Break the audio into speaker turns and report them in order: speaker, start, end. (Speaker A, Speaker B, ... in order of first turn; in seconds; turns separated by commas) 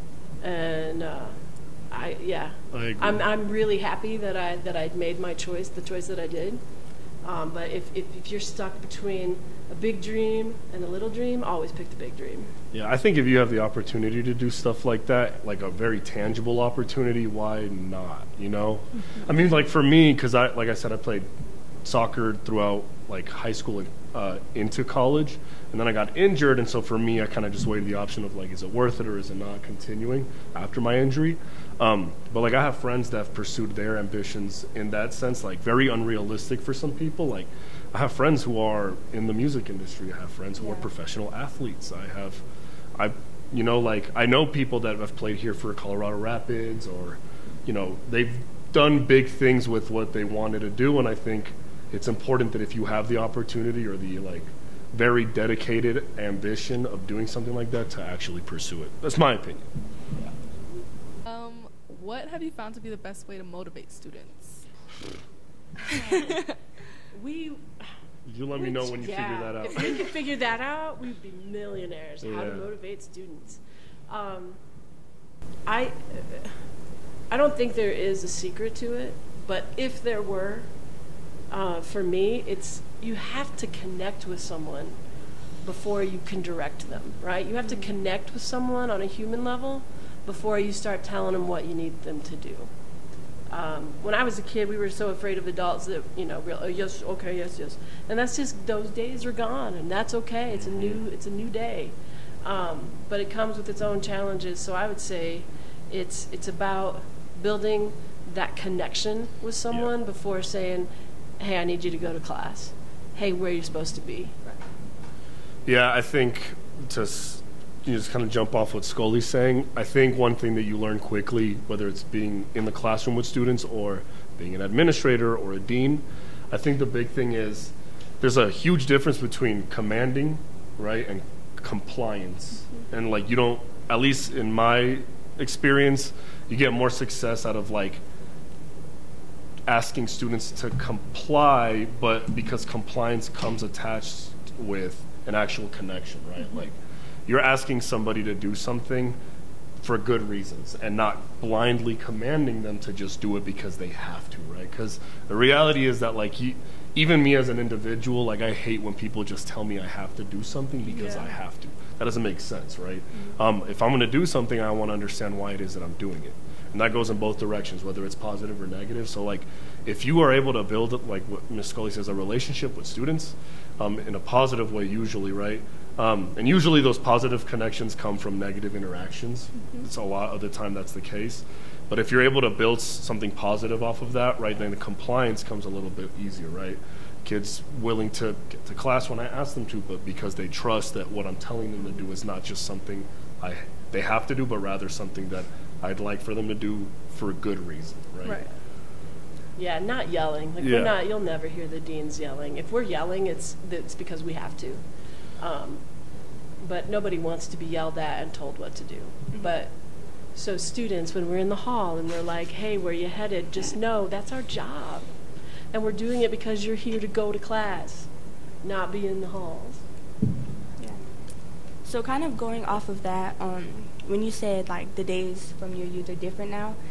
Speaker A: 0.4-1.4, Speaker A: 1.9-6.6, Speaker B: 2.7-3.3, Speaker A: 7.2-12.5, Speaker B: 12.7-21.3, Speaker B: 21.9-42.4, Speaker C: 40.6-40.9, Speaker B: 43.0-59.7, Speaker D: 61.2-64.6, Speaker A: 67.1-67.9, Speaker B: 68.3-69.9, Speaker A: 68.5-74.6, Speaker B: 72.2-72.7, Speaker A: 75.7-76.5, Speaker A: 77.3-80.7, Speaker A: 81.5-85.0, Speaker A: 85.6-92.7, Speaker A: 93.5-114.5, Speaker B: 100.5-101.0, Speaker B: 115.7-138.0, Speaker B: 139.7-149.2, Speaker B: 149.8-198.4, Speaker A: 160.9-161.3, Speaker A: 199.6-204.8, Speaker B: 200.6-200.9, Speaker A: 205.4-205.8, Speaker A: 206.6-209.7, Speaker A: 210.3-215.1, Speaker A: 215.7-218.1, Speaker A: 218.6-219.8, Speaker C: 221.8-226.8